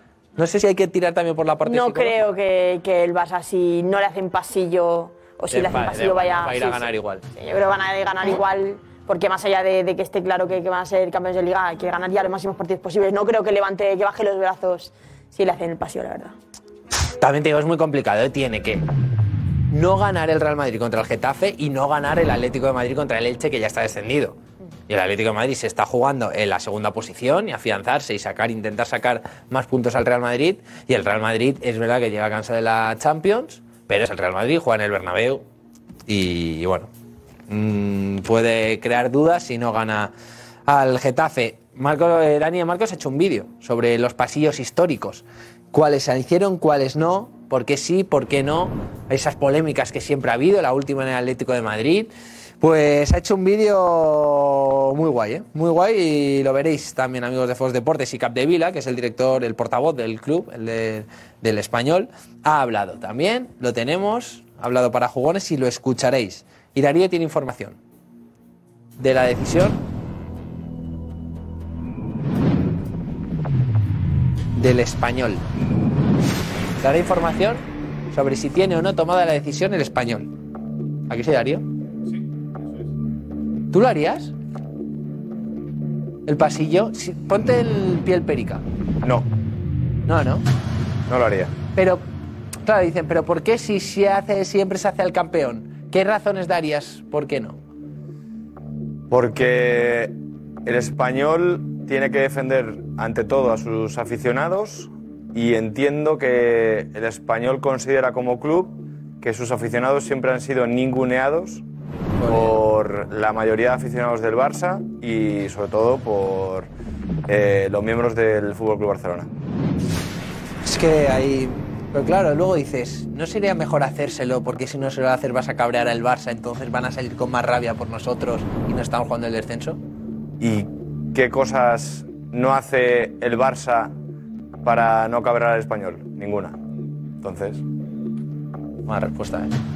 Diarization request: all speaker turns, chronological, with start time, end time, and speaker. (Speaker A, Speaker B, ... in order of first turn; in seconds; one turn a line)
Speaker A: 0.4-2.2
Speaker B: 1.6-16.3
Speaker A: 5.5-7.2
Speaker A: 17.2-18.8
Speaker A: 19.7-24.4
Speaker A: 24.9-35.4
Speaker A: 36.1-36.9
Speaker A: 37.5-40.1
Speaker A: 40.7-67.8
Speaker A: 69.0-69.8
Speaker A: 74.6-75.5
Speaker A: 76.8-80.3
Speaker A: 81.1-81.7
Speaker A: 83.7-84.3
Speaker A: 86.2-88.6
Speaker A: 90.1-90.4
Speaker C: 91.1-91.5
Speaker A: 91.8-92.0
Speaker A: 92.6-97.6
Speaker C: 99.1-100.1
Speaker C: 100.6-111.6
Speaker A: 112.2-112.6
Speaker C: 112.2-116.7
Speaker C: 117.3-119.3
Speaker A: 120.6-129.8
Speaker C: 130.4-133.9
Speaker C: 134.6-136.6
Speaker C: 137.2-137.6
Speaker A: 138.9-139.6